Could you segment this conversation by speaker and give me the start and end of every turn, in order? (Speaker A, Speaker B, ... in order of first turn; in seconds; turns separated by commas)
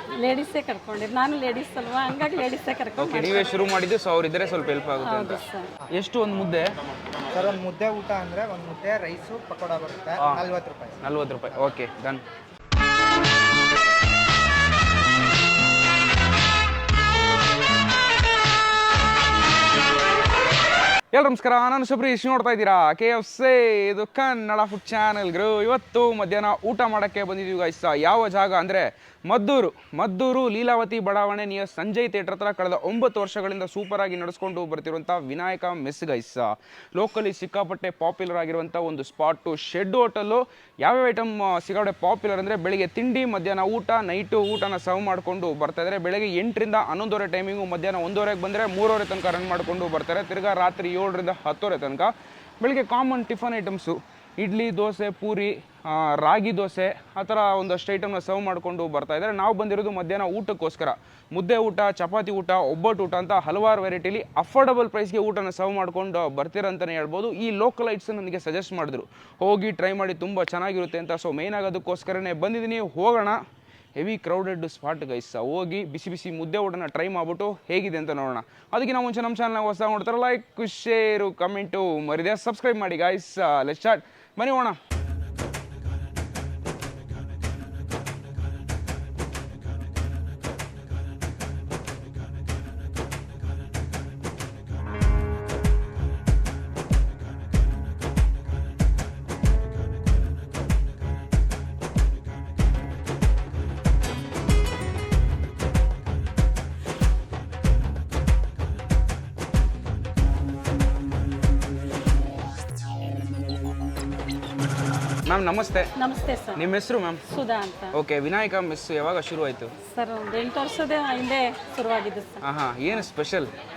Speaker A: 0.2-3.5, Speaker B: 3.0-5.4, Speaker A: 5.0-5.7, Speaker B: 5.9-6.7, Speaker C: 7.3-11.0, Speaker B: 10.2-10.5, Speaker B: 11.0-12.2, Speaker B: 21.1-73.4, Speaker B: 73.9-84.8, Speaker B: 115.2-115.9, Speaker A: 116.0-116.7, Speaker B: 116.5-117.2, Speaker A: 117.3-118.0, Speaker B: 117.9-119.7, Speaker A: 119.8-122.4, Speaker B: 122.4-123.5